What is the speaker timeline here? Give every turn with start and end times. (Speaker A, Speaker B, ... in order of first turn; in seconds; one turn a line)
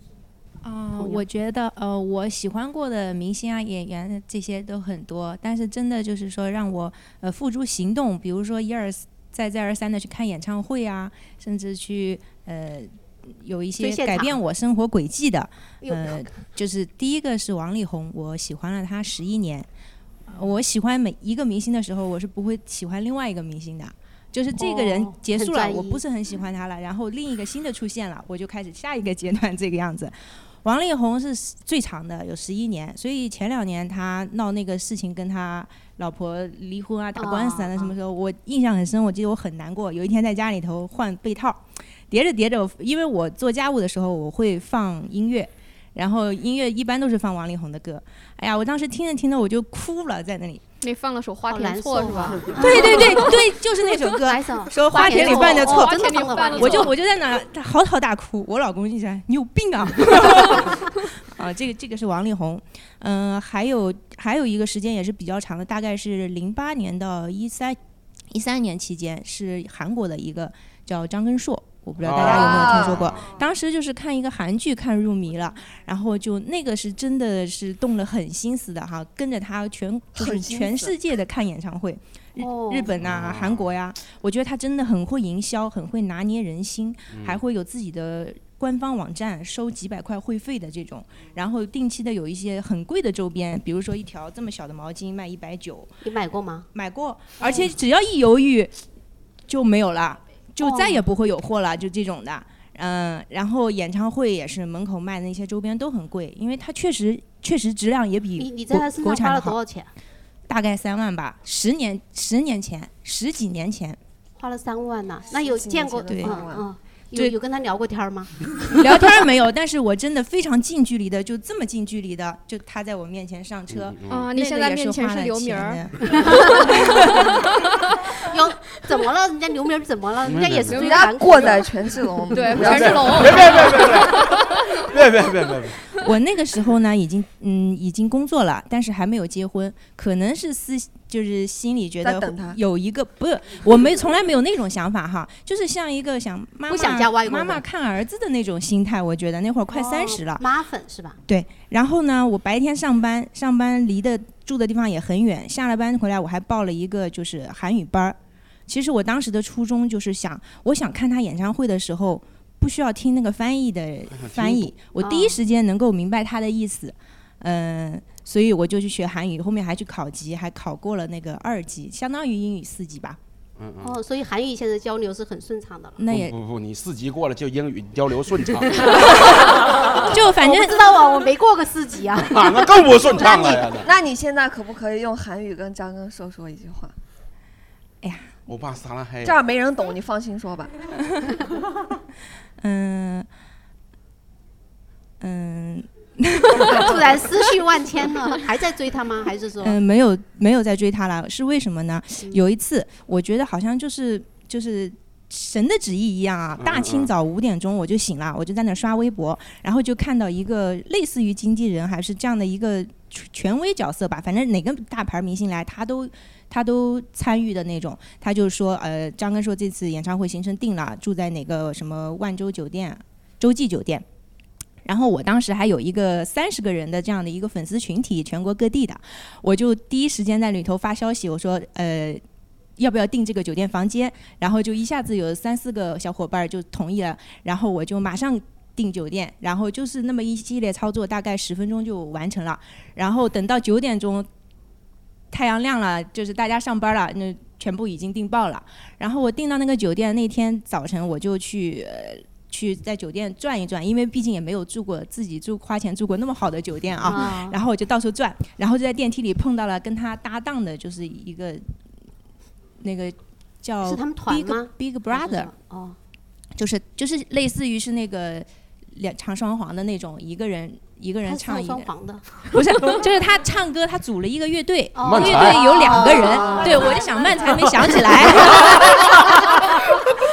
Speaker A: 0.6-19.7
Speaker B: 1.0-1.2
Speaker B: 13.8-14.4
Speaker B: 15.8-16.4
Speaker A: 20.3-50.6
Speaker B: 24.6-26.0
Speaker B: 37.2-38.0
Speaker C: 50.8-53.3
Speaker B: 51.5-53.4
Speaker A: 52.5-67.8
Speaker B: 54.0-56.9
Speaker C: 54.9-57.0
Speaker A: 68.3-95.9
Speaker D: 72.0-73.2
Speaker E: 72.2-73.0
Speaker E: 80.2-80.9
Speaker B: 82.4-82.9
Speaker D: 83.0-83.7
Speaker D: 87.1-87.4
Speaker B: 96.0-96.7
Speaker A: 96.7-98.7
Speaker B: 97.4-97.7
Speaker A: 99.5-109.6
Speaker B: 100.6-101.0
Speaker B: 108.4-109.9
Speaker A: 110.5-114.0
Speaker B: 114.4-118.9
Speaker E: 115.3-116.7
Speaker A: 116.1-116.4
Speaker A: 118.7-127.3
Speaker D: 123.7-124.3
Speaker C: 124.1-127.4
Speaker B: 126.1-127.0
Speaker B: 128.1-131.7
Speaker D: 130.2-130.9
Speaker C: 130.7-131.0
Speaker E: 130.7-133.4
Speaker C: 132.3-134.4
Speaker D: 132.6-135.8
Speaker A: 136.0-150.4
Speaker E: 142.0-142.6
Speaker B: 146.7-147.6
Speaker B: 149.7-151.2
Speaker A: 151.3-173.2
Speaker D: 164.1-164.7
Speaker B: 165.0-165.4
Speaker D: 173.6-174.0
Speaker B: 173.8-176.0
Speaker A: 176.0-176.3
Speaker D: 176.1-179.0
Speaker B: 178.8-183.7
Speaker A: 180.1-180.8
Speaker D: 182.3-183.9
Speaker E: 183.8-186.9
Speaker A: 188.0-188.3
Speaker D: 188.5-189.4
Speaker E: 189.2-190.7
Speaker A: 192.6-193.3
Speaker A: 195.2-197.0
Speaker B: 196.7-199.8
Speaker A: 199.6-224.1
Speaker D: 206.6-207.1
Speaker A: 224.8-232.2
Speaker A: 232.8-244.3
Speaker A: 245.3-261.6
Speaker B: 257.0-257.6
Speaker A: 262.8-265.5
Speaker B: 263.8-266.0
Speaker A: 266.6-271.9
Speaker B: 271.2-272.9
Speaker A: 272.5-280.0
Speaker B: 275.0-278.7
Speaker D: 275.0-276.1